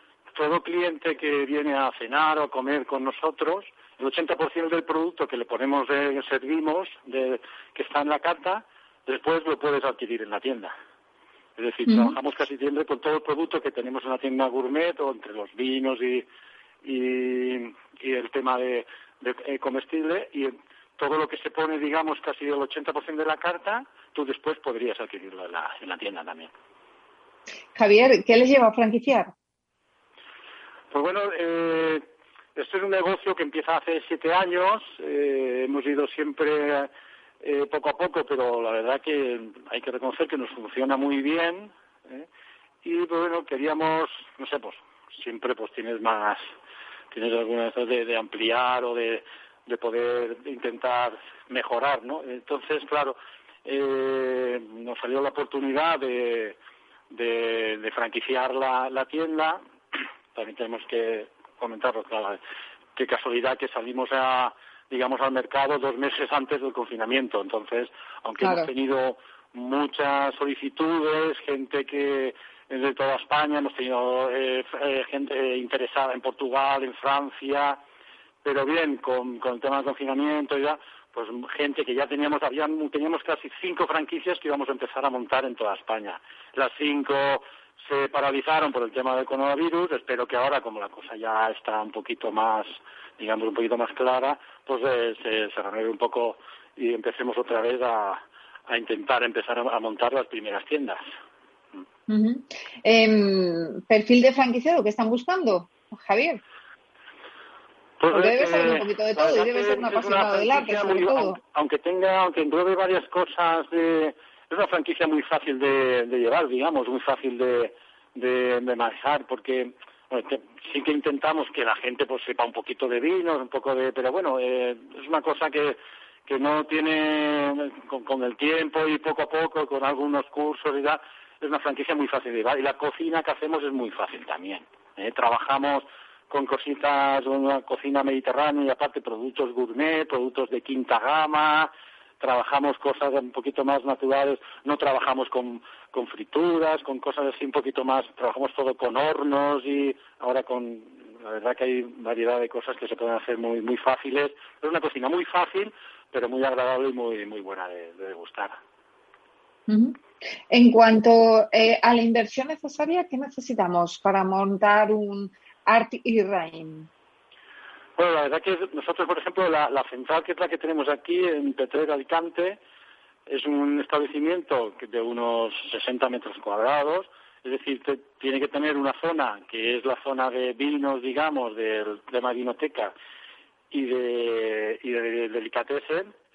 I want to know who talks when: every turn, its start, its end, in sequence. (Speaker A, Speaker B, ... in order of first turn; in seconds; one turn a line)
Speaker A: 0.3-10.7
Speaker A: 11.6-16.3
Speaker B: 11.9-12.2
Speaker A: 16.8-26.5
Speaker B: 27.8-29.3
Speaker A: 30.9-36.9
Speaker A: 37.4-42.3
Speaker A: 42.8-46.4
Speaker A: 47.1-56.6
Speaker A: 57.1-59.6
Speaker A: 60.3-62.4
Speaker A: 63.0-77.8
Speaker B: 68.4-68.7
Speaker A: 78.4-101.0
Speaker B: 102.1-106.4
Speaker A: 108.0-158.6
Speaker B: 108.1-111.4
Speaker B: 159.7-160.0
Speaker B: 160.5-166.9
Speaker A: 168.0-172.6
Speaker A: 173.3-182.9
Speaker A: 183.7-186.1